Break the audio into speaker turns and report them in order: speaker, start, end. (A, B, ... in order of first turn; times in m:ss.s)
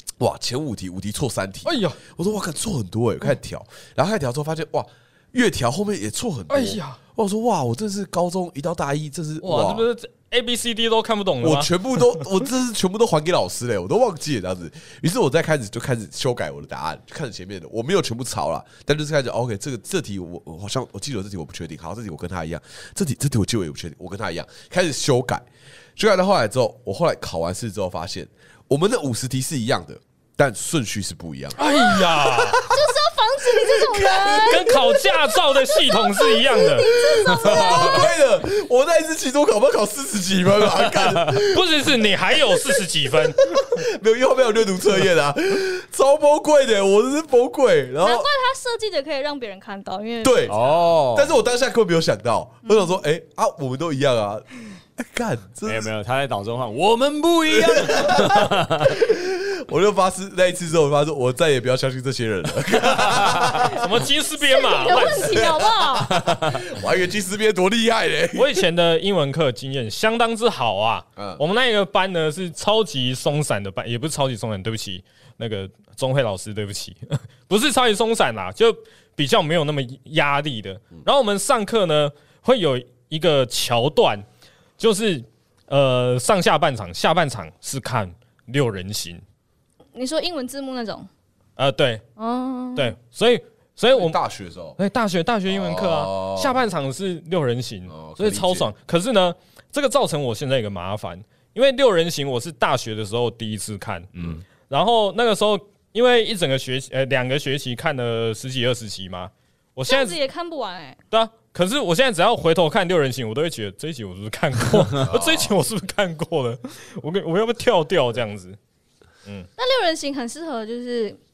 0:00.2-0:09.9 A
0:01.6-0:02.0 B
0:06.5-0:07.0 B
0:09.4-0:12.2 B
0:11.4-0:34.8 A
0:31.6-0:32.6 B
0:32.6-0:38.1 C
0:34.3-0:36.9 B
0:36.8-0:48.3 A
0:41.5-0:43.7 B
0:48.0-0:50.7 C
0:50.2-0:50.6 A
0:50.5-0:51.3 D
0:51.1-0:55.9 A
0:55.6-0:59.0 D
0:57.5-1:04.0 A
1:03.6-1:05.5 B
1:04.4-1:06.2 C
1:04.9-1:08.6 A
1:06.2-1:06.6 D
1:08.4-1:24.3 B
1:11.2-1:11.4 A
1:24.8-1:29.2 B
1:30.0-1:31.1 C
1:31.6-1:32.0 B
1:32.2-1:33.0 C
1:32.8-1:34.2 B
1:33.9-1:34.8 A
1:34.8-1:44.1 B
1:35.5-1:36.7 A
1:37.9-1:38.7 A
1:44.1-1:44.4 D
1:44.7-1:50.2 B
1:49.9-1:51.0 C
1:51.1-1:58.6 B
1:55.0-1:55.6 A
1:59.6-2:01.2 C